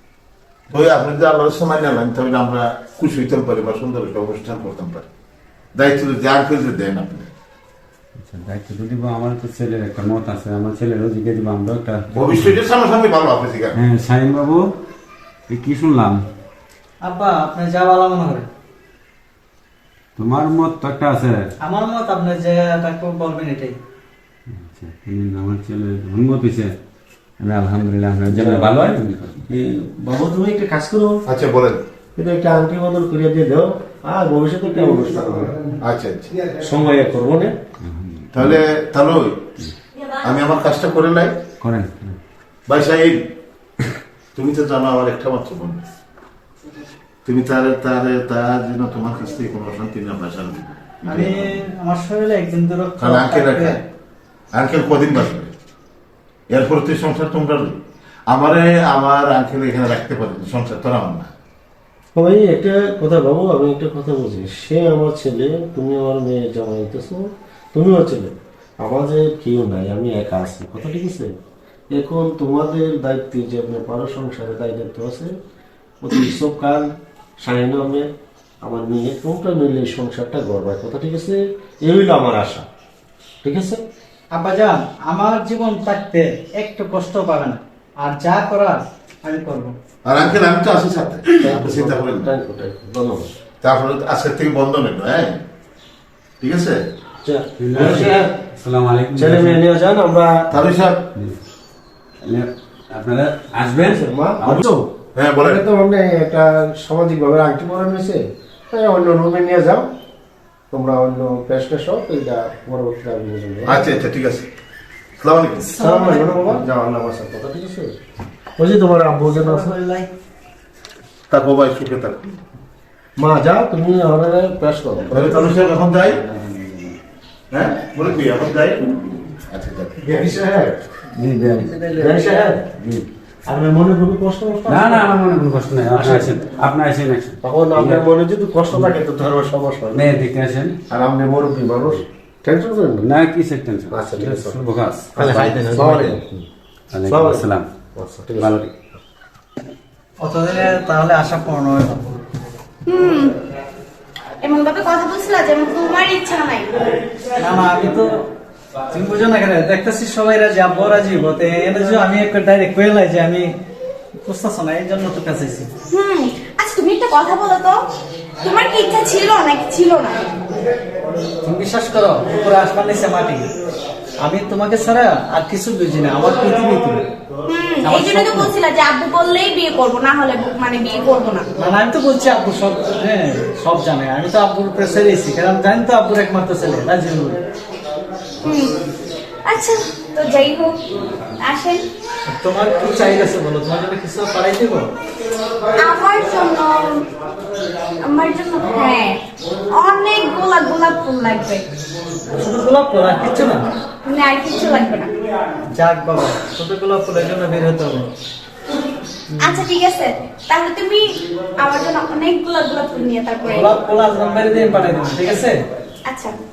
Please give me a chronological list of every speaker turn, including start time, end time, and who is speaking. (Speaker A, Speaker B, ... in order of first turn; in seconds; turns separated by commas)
Speaker A: 0.7-5.1, Speaker A: 5.7-7.3, Speaker B: 8.2-12.6, Speaker A: 12.1-13.8, Speaker B: 13.7-14.6, Speaker B: 15.5-16.2, Speaker C: 17.0-18.5, Speaker B: 20.2-21.4, Speaker C: 21.6-23.8, Speaker B: 24.5-26.7, Speaker B: 27.4-29.4, Speaker D: 28.3-28.8, Speaker D: 29.5-31.2, Speaker A: 31.3-31.8, Speaker D: 32.1-35.6, Speaker A: 35.8-36.4, Speaker D: 36.6-37.5, Speaker B: 37.8-38.6, Speaker A: 38.3-39.5, Speaker A: 40.2-41.4, Speaker B: 41.6-42.2, Speaker A: 42.7-43.3, Speaker A: 44.3-45.8, Speaker A: 47.2-51.6, Speaker C: 51.0-53.8, Speaker A: 53.0-53.8, Speaker A: 54.5-55.5, Speaker A: 56.5-61.3, Speaker D: 62.1-71.3, Speaker D: 71.9-75.3, Speaker D: 76.0-78.1, Speaker D: 78.6-82.6, Speaker D: 83.4-83.8, Speaker C: 84.3-89.7, Speaker A: 90.0-92.3, Speaker D: 91.4-93.3, Speaker A: 93.6-95.4, Speaker A: 96.4-96.8, Speaker D: 97.2-98.3, Speaker B: 97.6-99.6, Speaker D: 99.1-100.5, Speaker A: 100.5-101.1, Speaker B: 102.2-104.6, Speaker D: 103.8-109.8, Speaker A: 105.1-105.6, Speaker D: 110.7-113.9, Speaker A: 113.7-114.5, Speaker A: 115.2-115.7, Speaker C: 115.6-116.5, Speaker D: 115.8-117.9, Speaker D: 118.6-119.7, Speaker C: 119.3-120.1, Speaker A: 121.3-122.4, Speaker D: 123.2-125.4, Speaker A: 125.1-126.2, Speaker B: 126.2-127.0, Speaker A: 127.5-130.7, Speaker B: 131.1-133.1, Speaker D: 132.0-132.7, Speaker D: 133.4-135.1, Speaker B: 134.7-138.0, Speaker C: 135.9-136.4, Speaker D: 137.4-140.1, Speaker B: 139.9-140.8, Speaker D: 140.9-143.1, Speaker B: 143.0-146.1, Speaker D: 143.9-144.6, Speaker D: 145.2-146.4, Speaker A: 145.2-146.2, Speaker B: 146.9-147.7, Speaker D: 147.1-148.6, Speaker B: 148.4-148.7, Speaker C: 150.2-152.1, Speaker E: 152.8-153.4, Speaker E: 154.4-156.9, Speaker C: 157.4-158.2, Speaker C: 158.9-163.5, Speaker C: 164.2-165.7, Speaker E: 165.9-167.8, Speaker E: 168.4-170.2, Speaker C: 171.4-173.4, Speaker C: 174.2-177.0, Speaker E: 177.5-181.5, Speaker C: 177.8-178.5, Speaker C: 181.6-187.4, Speaker E: 188.4-188.7, Speaker E: 189.4-190.8, Speaker E: 191.4-191.8, Speaker C: 192.3-194.9, Speaker E: 195.8-197.1, Speaker E: 198.0-201.7, Speaker C: 202.3-203.7, Speaker E: 204.0-205.1, Speaker C: 205.7-208.1, Speaker E: 209.4-213.7, Speaker C: 213.5-215.6, Speaker E: 216.0-216.4